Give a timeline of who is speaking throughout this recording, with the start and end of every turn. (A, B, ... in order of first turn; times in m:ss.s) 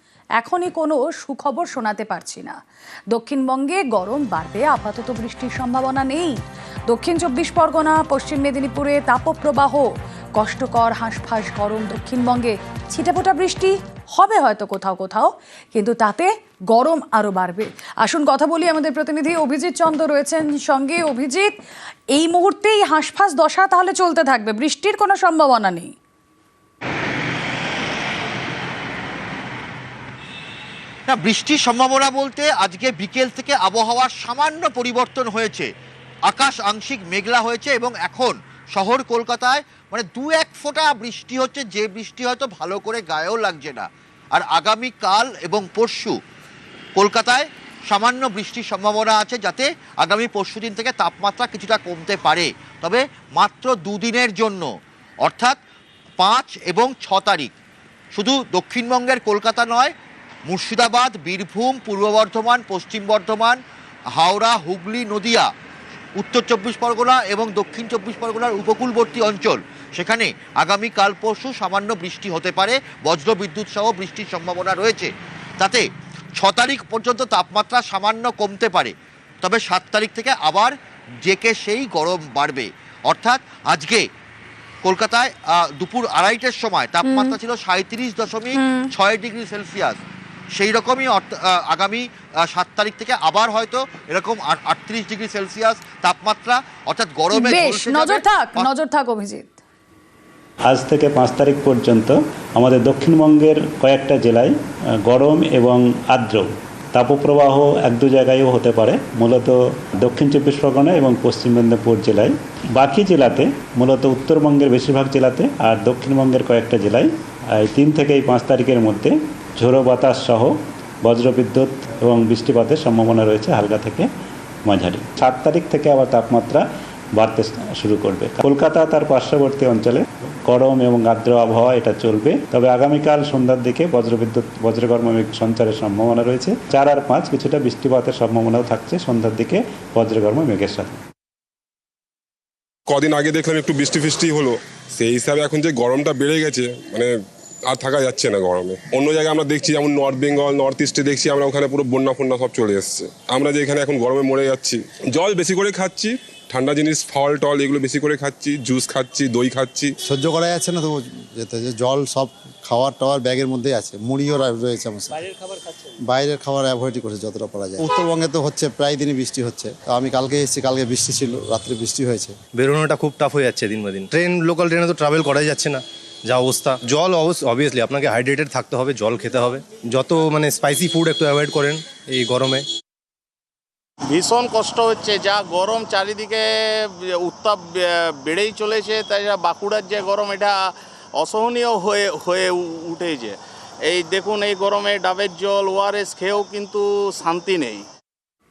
0:00.4-0:02.6 A
0:03.1-0:21.5 A
0:22.1-0:25.9 A
0:31.1-0:35.7 B
0:36.3-0:46.2 B
0:47.0-0:54.7 B
0:55.2-0:55.6 B
0:56.2-0:57.5 B
0:58.2-0:59.9 B
1:00.5-1:03.6 B
1:04.2-1:05.5 B
1:06.2-1:15.8 B
1:16.4-1:24.1 B
1:24.8-1:30.0 B
1:27.0-1:27.4 A
1:28.5-1:28.9 A
1:30.5-1:38.7 B
1:37.3-1:39.6 A
1:40.7-1:44.5 C
1:45.1-2:04.1 C
2:04.7-2:06.6 C
2:07.2-2:21.0 C
2:22.9-2:27.1 D
2:27.7-2:39.9 D
2:40.1-2:45.2 E
2:46.1-2:52.3 E
2:52.6-3:02.6 F
3:04.1-3:17.9 G